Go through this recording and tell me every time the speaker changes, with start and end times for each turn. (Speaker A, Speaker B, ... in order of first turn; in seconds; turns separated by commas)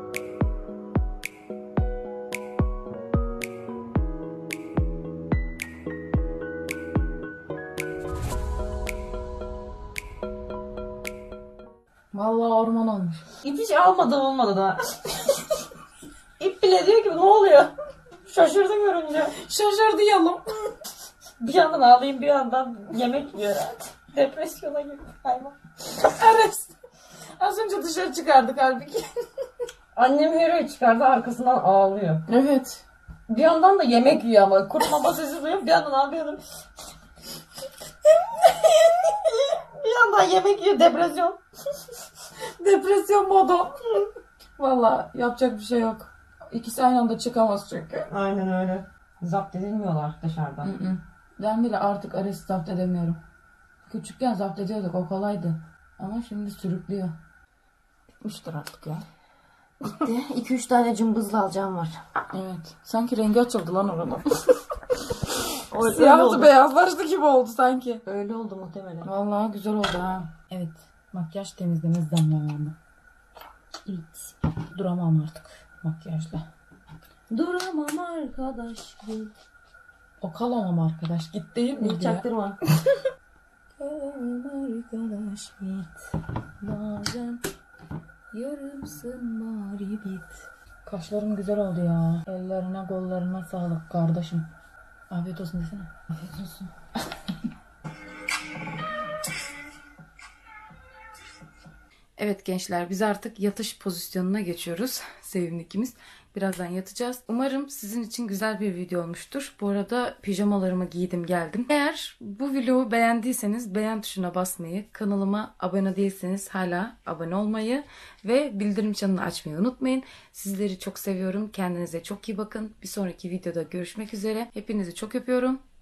Speaker A: 12.1-13.2, Speaker B: 13.4-14.8, Speaker B: 16.4-17.7, Speaker B: 18.2-19.3, Speaker A: 19.4-20.7, Speaker B: 21.4-25.6, Speaker A: 25.9-26.8, Speaker A: 27.4-29.1, Speaker B: 29.9-32.2, Speaker A: 32.3-32.8, Speaker B: 33.3-36.4, Speaker B: 38.4-41.4, Speaker A: 42.6-44.1, Speaker A: 44.6-48.1, Speaker B: 48.1-50.7, Speaker A: 50.6-53.2, Speaker A: 53.9-57.1, Speaker A: 58.2-59.0, Speaker B: 59.9-62.0, Speaker A: 62.3-65.1, Speaker B: 65.7-66.5, Speaker A: 65.7-68.0, Speaker B: 68.0-69.1, Speaker A: 69.0-72.8, Speaker A: 73.9-76.5, Speaker B: 77.3-79.3, Speaker A: 80.2-83.0, Speaker B: 81.8-82.6, Speaker A: 83.8-86.1, Speaker A: 86.6-87.4, Speaker A: 88.3-94.5, Speaker A: 95.1-97.5, Speaker A: 102.2-125.6